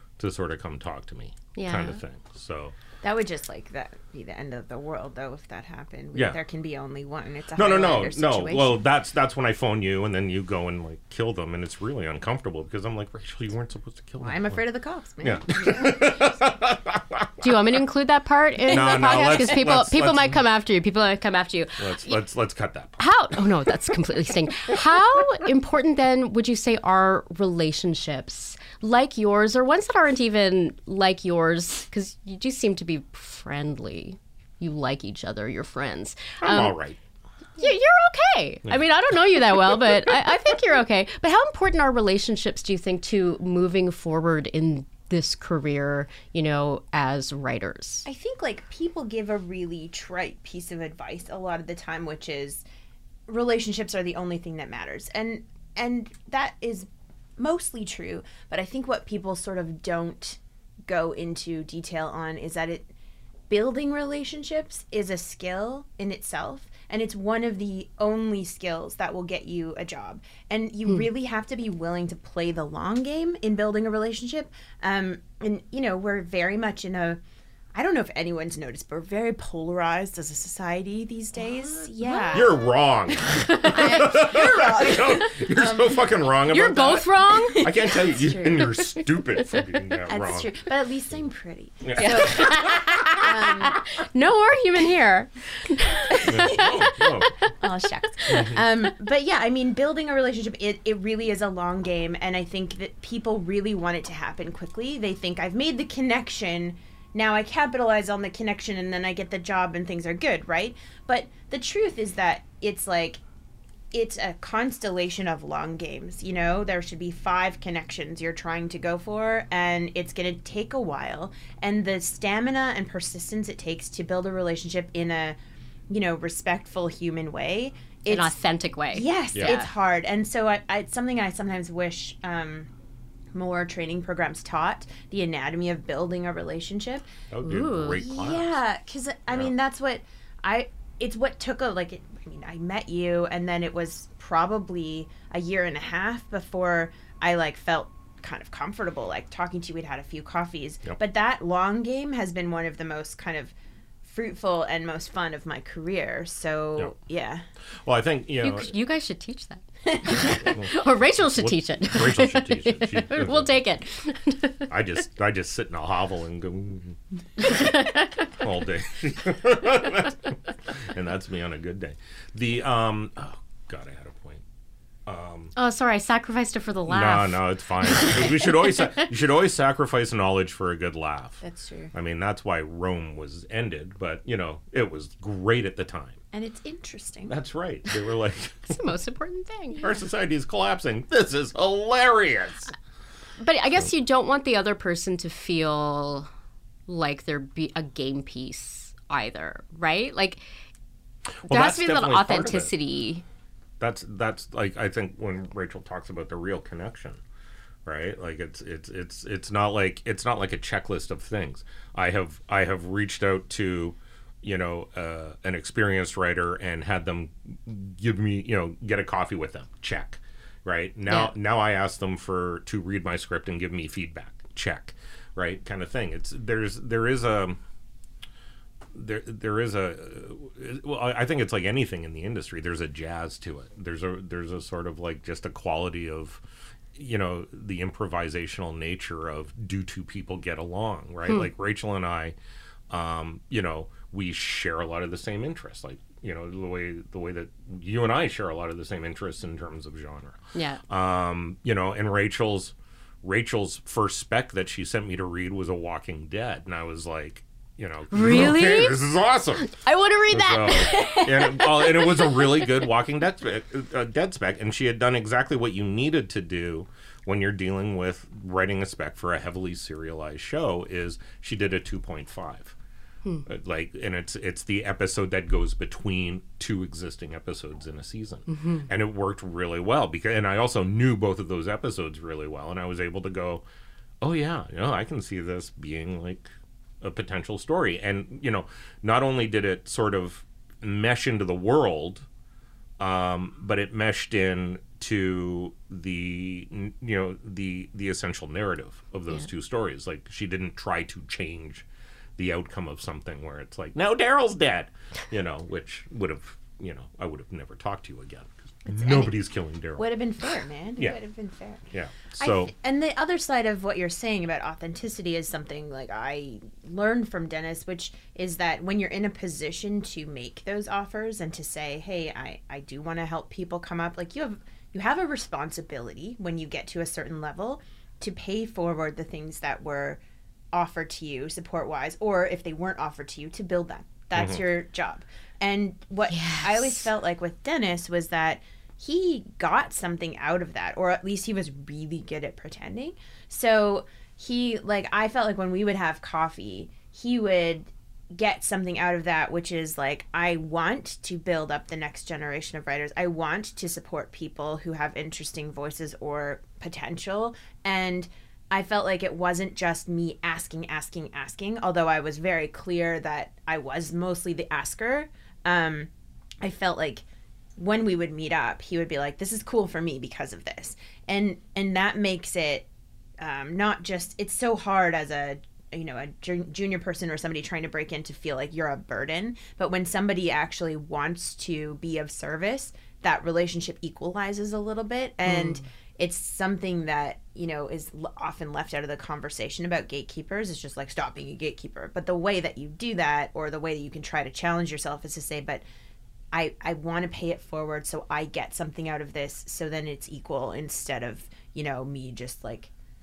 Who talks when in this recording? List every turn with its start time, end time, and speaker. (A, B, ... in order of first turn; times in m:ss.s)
0:00.2-0:02.7 A
0:01.5-0:02.0 B
0:03.0-0:08.8 C
0:07.5-0:14.6 A
0:14.2-0:16.3 C
0:15.2-0:17.5 A
0:17.4-0:22.2 B
0:18.7-0:19.5 C
0:18.7-0:20.4 A
0:21.8-0:23.0 A
0:23.0-0:36.7 B
0:36.4-0:37.0 A
0:37.6-0:48.0 B
0:48.0-0:52.6 C
0:53.3-1:02.9 C
1:03.5-1:17.2 C
1:17.7-1:22.6 C
1:22.0-1:22.5 B
1:22.3-1:30.5 A
1:23.3-1:24.0 B
1:23.6-1:26.2 C
1:26.5-1:27.7 B
1:27.3-1:28.8 C
1:30.0-1:33.8 C
1:31.8-1:33.0 A
1:32.0-1:36.9 B
1:36.1-1:37.0 C
1:36.3-1:37.3 A
1:37.6-1:53.2 C
1:38.3-1:38.6 A
1:53.9-2:05.4 C
2:05.9-2:08.3 C
2:08.1-2:09.7 B
2:08.9-2:12.7 C
2:09.3-2:09.6 A
2:13.3-2:17.1 C
2:17.3-2:18.6 A
2:17.4-2:18.0 B
2:18.0-2:37.4 C
2:37.8-2:38.7 A
2:38.4-2:44.7 B
2:39.9-2:40.3 C
2:40.3-2:43.6 A
2:44.7-2:47.6 A
2:47.5-2:48.0 B
2:48.3-2:54.4 A
2:55.0-2:55.5 A
2:55.5-2:58.5 B
2:56.9-3:01.4 A
3:01.4-3:01.9 C
3:01.9-3:06.2 A
3:06.3-3:07.3 C
3:07.3-3:08.8 A
3:08.7-3:09.9 B
3:09.8-3:12.7 A
3:13.4-3:16.3 B
3:16.9-3:20.4 B
3:21.4-3:22.7 A
3:21.5-3:23.2 B
3:23.8-3:27.2 A
3:27.8-3:47.6 A
3:41.1-3:41.3 B
3:48.9-3:56.4 A
3:56.9-4:02.3 A
4:02.9-4:19.7 A
4:10.5-4:10.8 B
4:18.1-4:19.0 B
4:19.6-4:21.0 B
4:20.3-4:32.7 A
4:20.9-4:22.6 C
4:33.4-4:43.6 A
4:38.5-4:38.9 B
4:44.2-4:52.2 A
4:53.0-5:01.8 A
5:02.4-5:10.1 A
5:08.9-5:09.4 C
5:10.0-5:11.8 C
5:11.9-5:12.7 A
5:12.4-5:30.2 C
5:30.7-6:06.1 C
5:34.3-5:34.6 A
5:36.3-5:37.0 B
6:06.6-6:07.2 C
6:07.8-6:12.8 C
6:13.4-6:35.8 C
6:36.5-6:42.9 C